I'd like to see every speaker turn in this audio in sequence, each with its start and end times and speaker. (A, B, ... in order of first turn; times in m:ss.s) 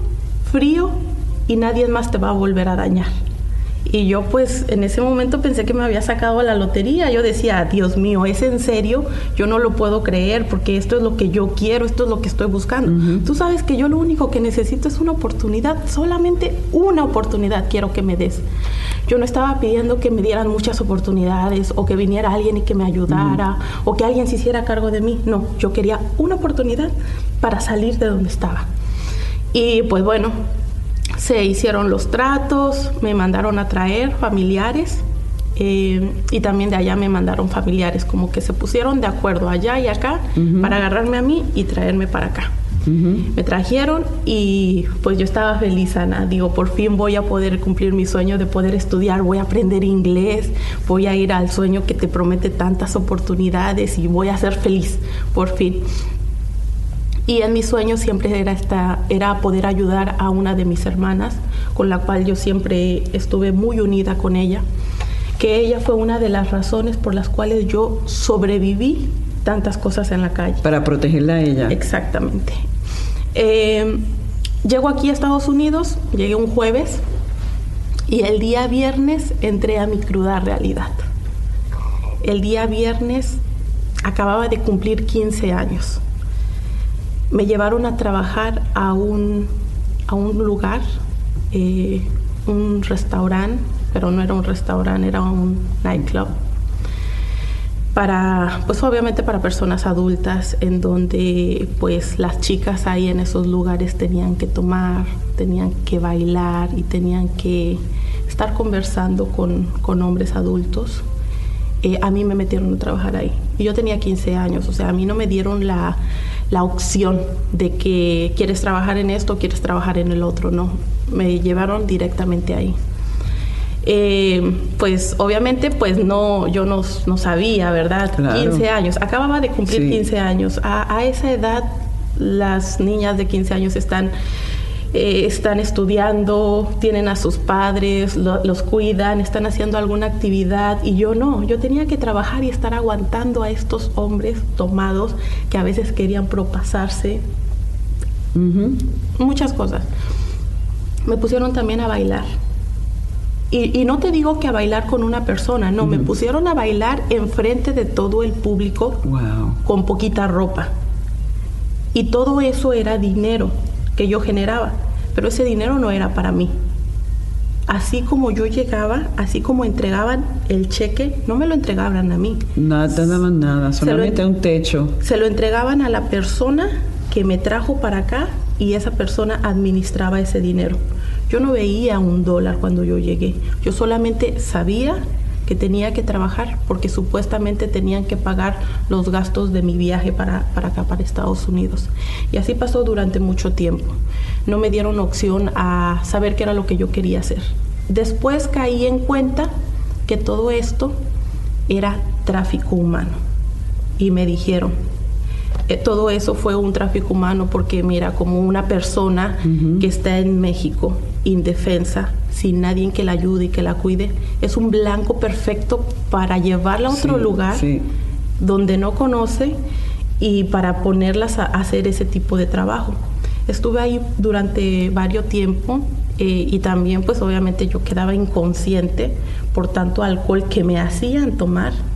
0:00.4-0:03.1 A
0:03.8-0:18.4 A
0:12.8-0:13.2 B
0:19.1-0:28.7 A
0:23.1-0:23.4 B
0:29.5-0:30.3 A
0:31.2-0:35.0 A
0:35.6-0:42.5 A
0:40.4-0:40.7 B
0:42.8-0:43.3 B
0:43.3-0:55.8 A
0:57.3-1:04.6 A
1:05.4-1:10.6 A
1:10.6-1:11.8 B
1:11.7-1:12.6 A
1:13.3-1:14.1 A
1:14.6-1:17.0 A
1:18.1-1:21.1 A
1:22.2-1:23.4 A
1:24.0-1:26.0 A
1:27.3-1:29.5 A
1:30.1-1:30.8 A
1:31.5-1:36.3 A
1:37.9-1:51.0 A
1:51.8-1:56.0 A
1:56.5-2:02.7 A
2:03.8-2:14.1 A
2:08.2-2:08.6 B
2:09.7-2:10.0 B
2:14.9-2:27.2 A
2:28.3-2:28.8 B
2:29.2-2:29.9 A
2:31.0-2:32.3 A
2:33.5-2:39.0 A
2:35.8-2:36.1 B
2:39.0-2:39.6 B
2:39.6-2:40.7 A
2:41.9-2:46.5 A
2:47.7-2:52.4 A
2:52.6-2:54.9 B
2:53.8-2:54.2 A
2:55.0-3:19.5 A
3:20.1-3:21.0 A
3:21.7-3:23.2 A
3:24.0-3:24.7 A
3:25.7-3:37.7 A
3:29.4-3:29.8 B
3:36.9-3:37.8 B
3:38.4-3:39.5 A
3:40.2-3:51.8 A